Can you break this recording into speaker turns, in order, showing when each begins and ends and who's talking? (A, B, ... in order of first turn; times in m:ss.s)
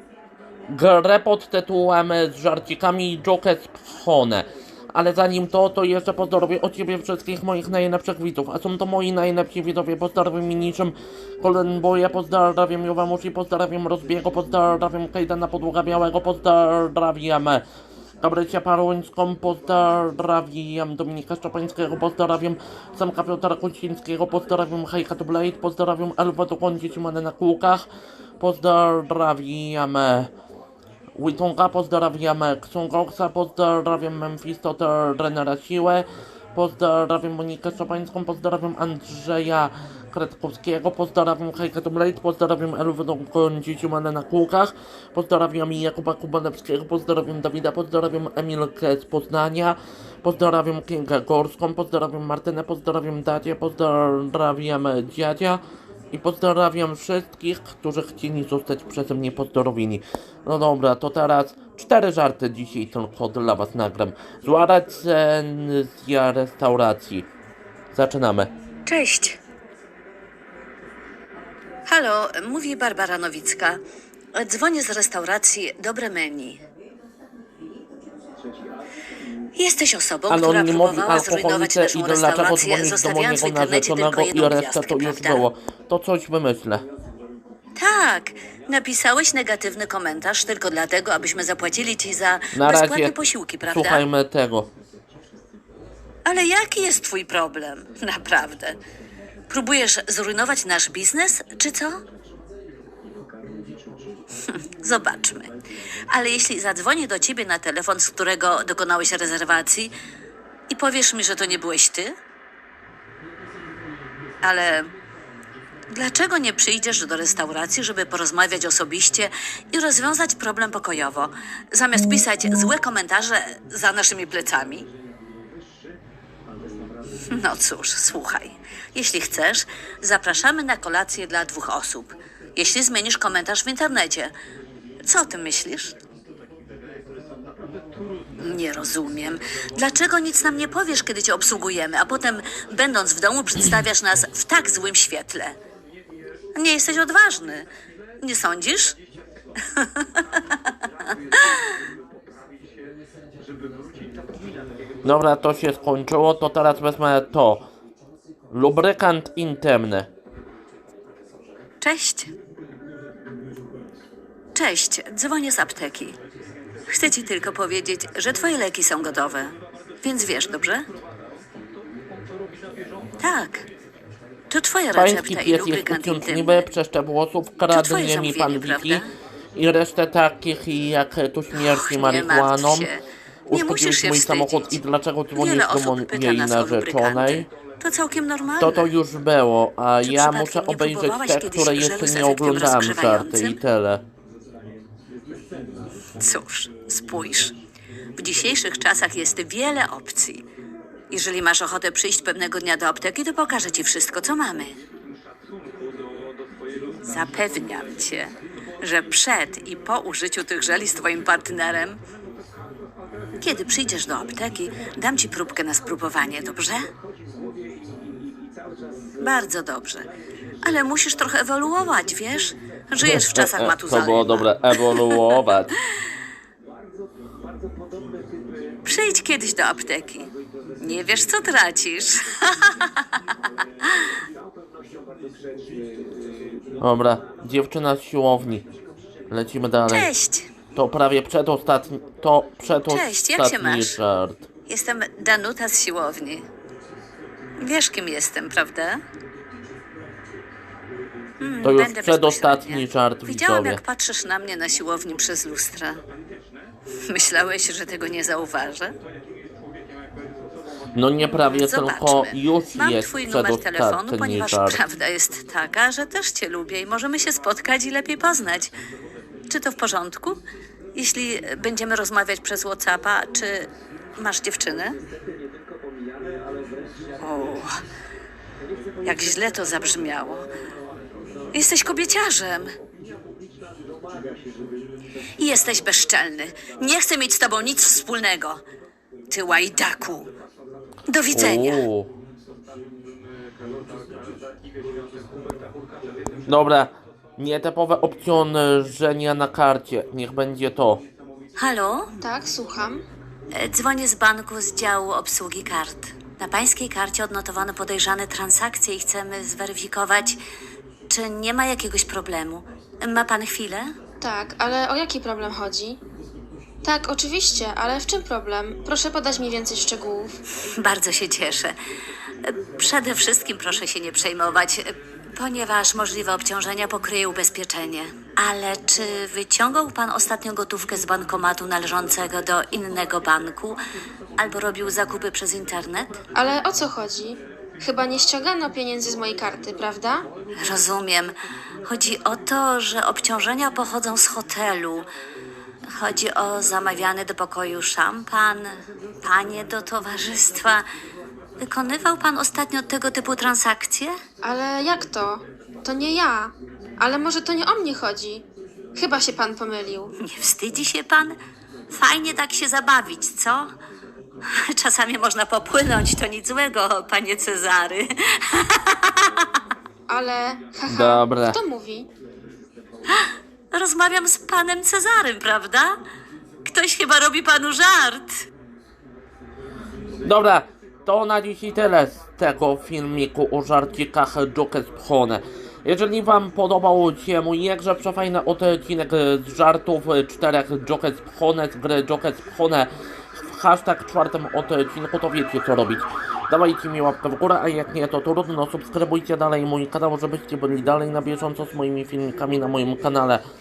0:00.7-0:17.6 A
0:18.2-0:27.8 A
0:28.4-0:30.3 A
0:31.1-0:55.6 A
0:56.1-1:07.3 A
1:07.9-1:08.5 A
1:08.9-1:09.4 B
1:11.9-1:13.8 B
1:14.3-1:16.6 B
1:19.6-1:25.5 B
1:20.3-1:26.8 A
1:27.8-1:34.0 B
1:32.5-1:34.7 A
1:36.2-1:38.8 B
1:39.5-1:42.0 B
1:44.8-1:45.5 B
1:46.1-1:49.9 B
1:50.7-1:52.1 B
1:54.4-1:54.9 B
1:55.9-2:04.9 B
2:07.3-2:14.3 B
2:15.0-2:15.9 B
2:18.4-2:25.6 B
2:26.6-2:27.7 B
2:28.2-2:29.0 B
2:29.7-2:30.0 B
2:35.0-2:37.6 A
2:38.5-2:40.1 A
2:41.8-2:42.3 B
2:44.5-2:46.2 B
2:46.9-2:50.8 B
2:53.2-2:53.6 B
2:54.5-2:56.7 B
2:54.9-2:59.0 A
2:57.7-2:59.1 B
2:59.5-3:02.9 A
3:01.5-3:08.9 B
3:03.5-3:07.5 A
3:08.6-3:14.0 A
3:10.0-3:13.6 B
3:16.2-3:17.5 B
3:18.2-3:20.4 B
3:21.1-3:24.8 B
3:27.0-3:32.0 B
3:33.4-3:36.9 B
3:39.2-3:40.1 B
3:40.6-3:45.8 B
3:43.0-3:45.7 A
3:48.8-3:52.9 B
3:56.8-3:58.6 A
3:59.3-4:00.1 A
3:59.9-4:00.5 B
4:00.7-4:04.4 A
4:02.8-4:04.0 B
4:04.7-4:06.4 B
4:07.6-4:09.0 B
4:11.4-4:16.0 B
4:11.6-4:13.8 A
4:17.1-4:18.9 B
4:20.9-4:24.8 A
4:21.3-4:28.7 B
4:29.5-4:30.4 B
4:30.9-4:35.0 B
4:37.2-4:37.7 B
4:39.0-4:40.5 B
4:41.5-4:42.7 B
4:45.4-4:48.6 B
4:49.3-4:50.3 B
4:51.1-4:51.8 B
4:51.3-4:52.1 A
4:56.5-5:01.0 A
5:01.6-5:02.1 B
5:02.2-5:03.0 C
5:03.5-5:10.4 B
5:11.1-5:13.9 B
5:14.2-5:16.0 C
5:16.8-5:20.4 C
5:20.8-5:21.8 B
5:22.5-5:33.8 B
5:34.4-5:36.2 B
5:36.3-5:40.3 C
5:40.6-5:41.3 B
5:41.8-5:45.1 B
5:46.0-5:48.7 B
5:49.2-5:50.8 B
5:51.6-5:54.2 B
5:54.4-5:58.4 C
5:59.0-6:00.1 C
6:00.2-6:01.4 B
6:01.9-6:03.7 B
6:04.6-6:09.3 B
6:10.1-6:12.1 C
6:10.8-6:11.6 A
6:13.7-6:16.0 B
6:16.6-6:18.3 B
6:20.2-6:43.4 A